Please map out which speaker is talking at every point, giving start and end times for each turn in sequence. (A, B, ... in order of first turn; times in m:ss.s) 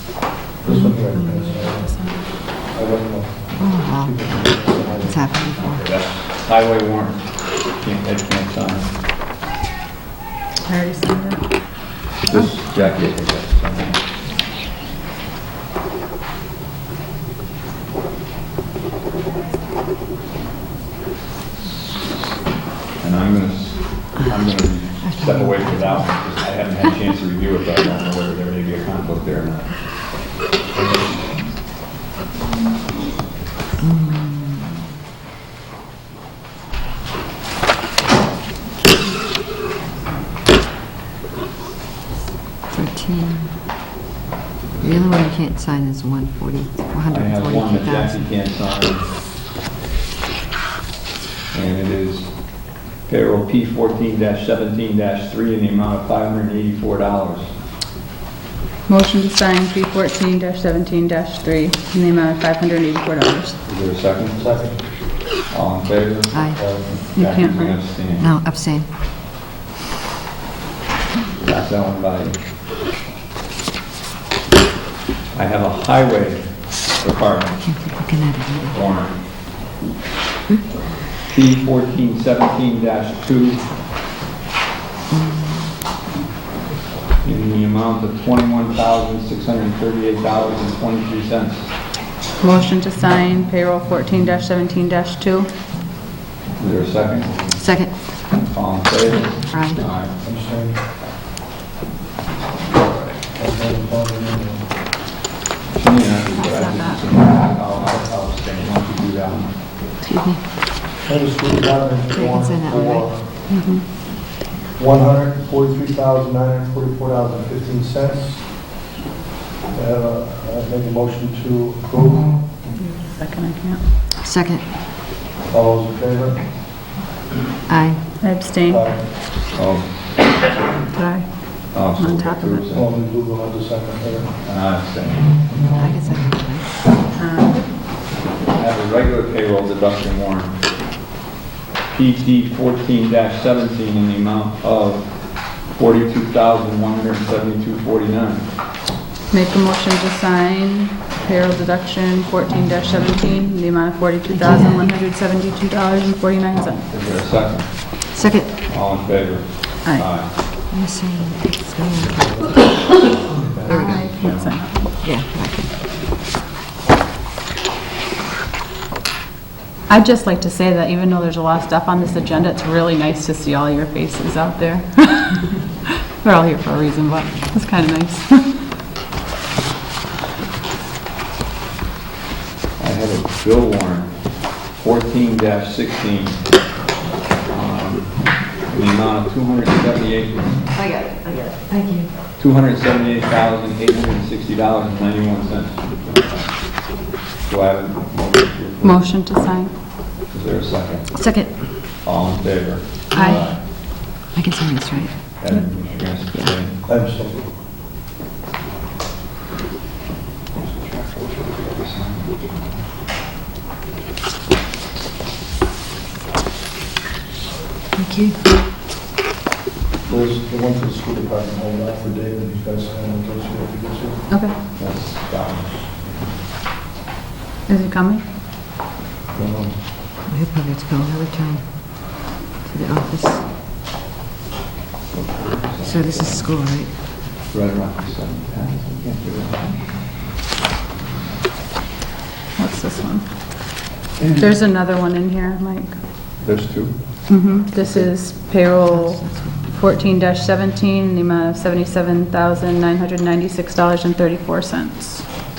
0:00.6-0:05.3 A
0:00.7-0:02.3 B
0:03.6-0:04.3 C
0:05.0-0:05.9 C
0:05.6-0:08.9 D
0:10.6-0:11.4 B
0:12.2-0:14.0 D
0:23.0-0:30.0 D
0:25.0-0:26.1 C
0:33.8-0:34.8 C
0:42.7-0:43.6 C
0:44.8-0:48.3 C
0:47.1-0:49.1 D
0:51.5-0:57.5 D
0:58.9-1:03.6 B
1:03.6-1:04.6 D
1:04.3-1:04.9 A
1:05.5-1:08.4 D
1:06.3-1:06.6 C
1:06.5-1:06.9 A
1:07.1-1:07.8 B
1:08.2-1:08.9 C
1:11.4-1:12.4 D
1:15.3-1:17.6 D
1:17.6-1:18.8 C
1:18.7-1:19.2 D
1:21.2-1:23.7 D
1:25.1-1:25.7 C
1:27.2-1:31.7 D
1:32.4-1:35.5 B
1:36.6-1:37.5 D
1:37.6-1:38.0 C
1:38.3-1:40.2 D
1:39.5-1:39.8 C
1:40.2-1:40.8 A
1:43.3-1:44.7 A
1:45.7-1:49.6 D
1:46.3-1:47.1 B
1:50.0-1:50.4 C
1:51.0-1:53.3 A
1:52.1-1:53.1 C
1:53.5-1:53.9 B
1:54.8-1:58.5 A
1:59.7-2:02.5 A
2:02.8-2:03.8 B
2:04.2-2:04.7 C
2:05.5-2:06.5 A
2:07.7-2:08.1 C
2:08.2-2:08.9 B
2:08.7-2:09.1 A
2:09.5-2:09.9 D
2:10.9-2:12.7 B
2:11.7-2:13.0 D
2:12.7-2:14.4 A
2:14.4-2:15.4 D
2:15.7-2:16.8 C
2:17.1-2:17.7 B
2:18.5-2:20.5 D
2:21.9-2:28.5 D
2:29.3-2:36.9 B
2:34.3-2:34.8 C
2:36.9-2:38.2 D
2:38.1-2:38.6 C
2:38.7-2:40.3 D
2:39.8-2:40.1 B
2:40.7-2:42.8 C
2:43.3-2:43.9 A
2:43.6-2:44.2 C
2:43.6-2:45.0 B
2:43.7-2:44.6 D
2:45.0-2:45.8 C
2:49.9-2:58.7 B
3:02.8-3:06.5 D
3:07.5-3:10.7 D
3:10.7-3:12.1 C
3:12.4-3:19.1 D
3:18.8-3:19.7 B
3:20.3-3:21.2 D
3:21.1-3:21.6 C
3:22.0-3:23.6 D
3:23.1-3:25.5 C
3:23.1-3:23.5 B
3:25.4-3:26.8 D
3:26.3-3:26.6 C
3:26.8-3:27.5 A
3:30.5-3:32.8 D
3:38.0-3:38.4 C
3:40.1-3:44.3 A
3:44.3-3:44.6 B
3:44.8-3:45.9 D
3:47.7-3:48.2 B
3:49.3-3:49.8 A
3:50.3-3:53.4 C
3:55.1-3:56.5 D
3:55.8-3:57.0 C
3:57.5-4:00.3 D
4:02.5-4:06.0 B
4:04.2-4:04.5 D
4:06.4-4:08.1 D
4:07.3-4:15.3 B
4:08.8-4:09.7 C